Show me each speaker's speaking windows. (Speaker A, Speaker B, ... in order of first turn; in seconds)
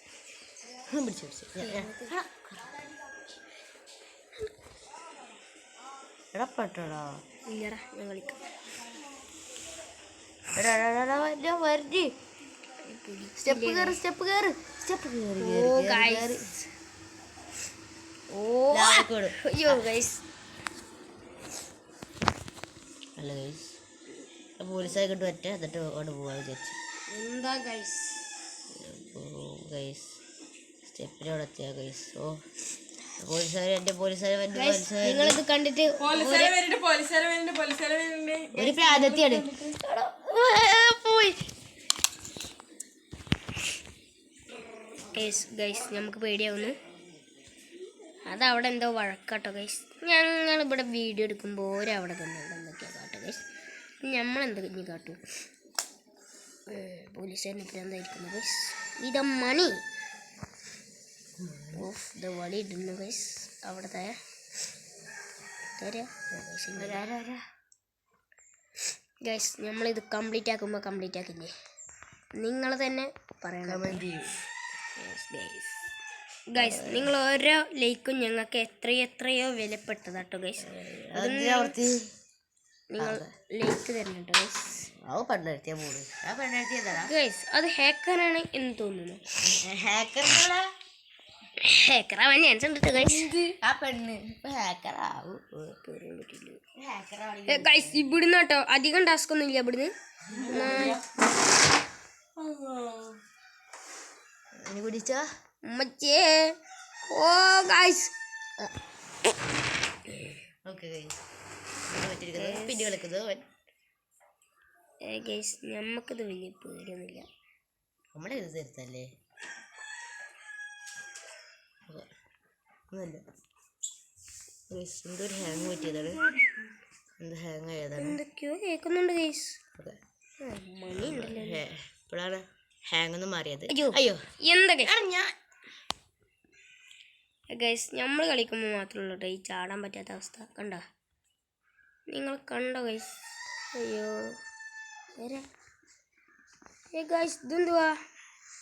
Speaker A: 0.8-2.6, 6.3-7.2, 10.6-12.1, 13.4-16.4, 18.7-19.9, 23.2-23.8, 24.6-26.8, 28.7-30.1, 30.8-32.4, 33.2-35.4, 38.5-41.5, 61.4-61.9, 66.8-67.4, 73.6-74.4, 76.6-77.1, 80.6-82.0, 83.0-83.3, 85.1-87.1, 89.5-90.7, 93.0-95.8, 96.8-98.1, 104.6-105.3, 110.7-111.1, 111.9-113.5, 118.1-119.1, 122.9-123.2, 124.7-126.3, 127.2-128.2, 130.9-134.2, 134.8-135.3
Speaker B: 1.6-2.1, 7.5-8.5, 12.8-14.0, 15.4-16.5, 18.3-20.2, 27.1-28.4, 34.5-36.6, 45.1-46.8, 48.3-53.5, 54.0-55.2, 56.7-59.8, 61.8-64.2, 65.8-67.0, 69.2-71.5, 72.4-74.1, 75.0-75.8, 76.5-81.8, 82.9-84.9, 86.9-89.6, 91.6-93.5, 95.8-96.6, 97.5-101.0, 105.7-108.7, 112.3-112.9, 115.1-117.3, 128.0-129.6, 130.4-131.6, 133.7-134.9, 137.5-140.8, 142.1-143.1, 143.8-144.4, 145.2-145.4, 146.9-148.0
Speaker C: 36.0-39.8, 100.3-101.0, 102.4-103.2